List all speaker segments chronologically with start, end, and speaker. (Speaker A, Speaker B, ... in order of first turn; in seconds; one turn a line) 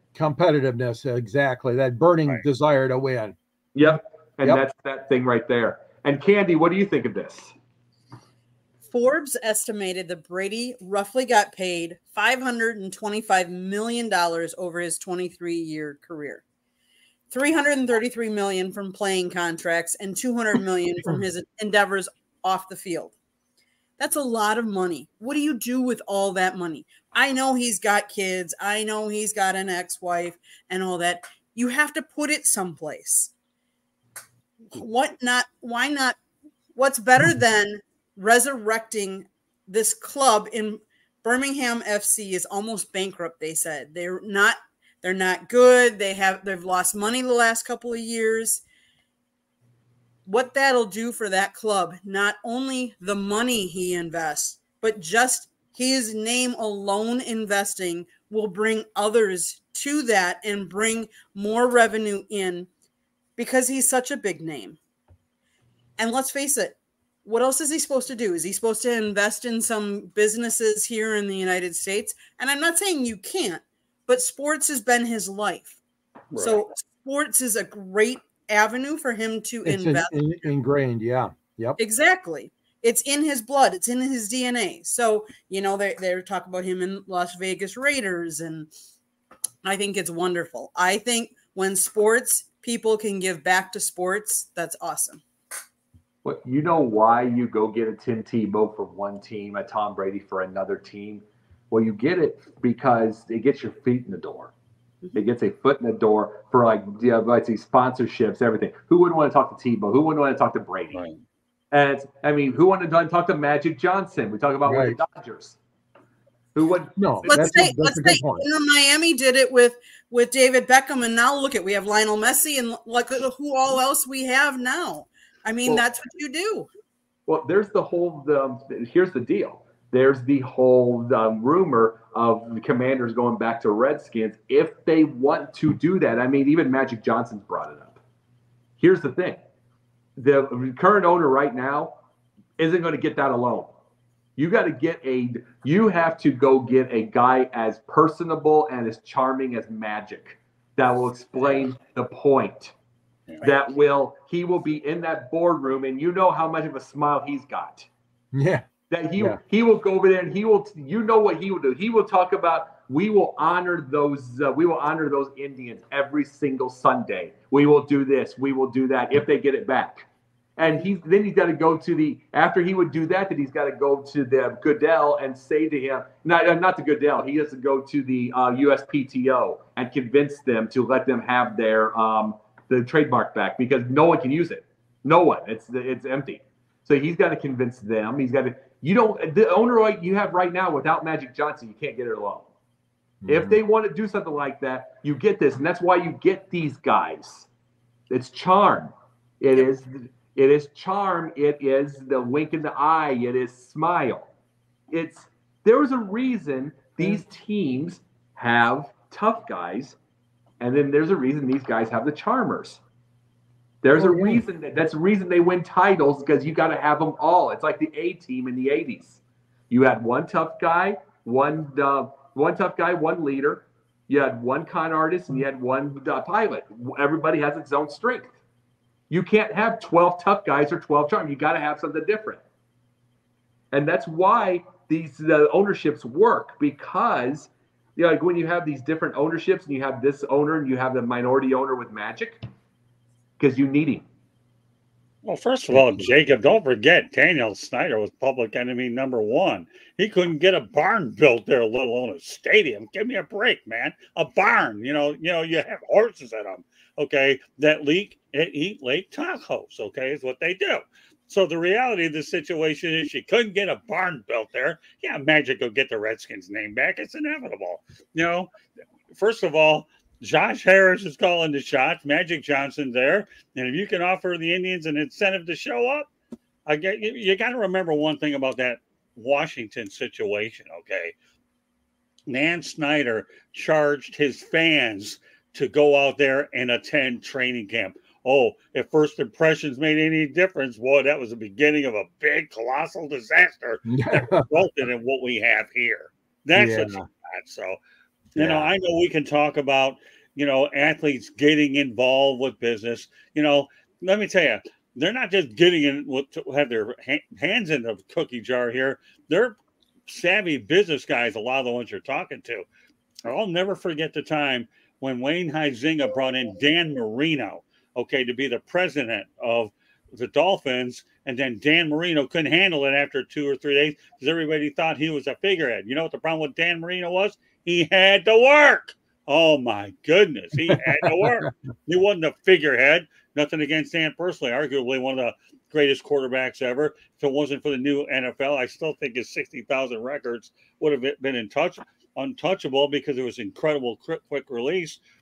Speaker A: 0.1-3.4
Speaker B: 3.7-7.5
Speaker C: 8.9-16.4
Speaker C: 17.3-23.1
Speaker C: 24.0-33.3
Speaker C: 34.7-36.2
Speaker C: 36.8-48.6
Speaker C: 50.2-62.7
Speaker C: 63.4-64.8
Speaker C: 66.0-75.8
Speaker D: 76.3-76.6
Speaker C: 76.3-80.1
Speaker A: 79.6-81.8
Speaker C: 81.8-88.7
Speaker C: 89.6-95.2
Speaker B: 96.2-104.5
Speaker B: 105.1-111.0
Speaker D: 110.9-111.2
Speaker B: 111.7-115.6
Speaker A: 114.7-115.0
Speaker B: 116.5-117.5
Speaker A: 117.0-118.5
Speaker C: 117.3-126.7
Speaker B: 127.2-138.0
Speaker B: 138.8-139.4
Speaker B: 140.2-141.9
Speaker B: 142.6-143.7
Speaker B: 144.4-152.7
Speaker B: 153.4-157.9
Speaker A: 158.3-158.7
Speaker B: 158.9-192.5
Speaker A: 193.2-193.6
Speaker B: 193.3-197.5
Speaker B: 198.1-204.3
Speaker B: 204.9-210.0
Speaker B: 210.6-212.8
Speaker B: 213.8-228.3
Speaker A: 213.9-214.4
Speaker B: 229.1-232.4
Speaker B: 233.7-242.4
Speaker B: 243.4-244.1
Speaker D: 245.2-268.5
Speaker D: 269.1-276.1
Speaker D: 276.6-281.1
Speaker D: 282.3-297.8
Speaker A: 293.9-294.5
Speaker A: 296.5-297.1
Speaker A: 298.3-298.7
Speaker D: 298.4-309.6
Speaker D: 310.1-312.6
Speaker D: 313.2-345.0
Speaker A: 330.7-331.2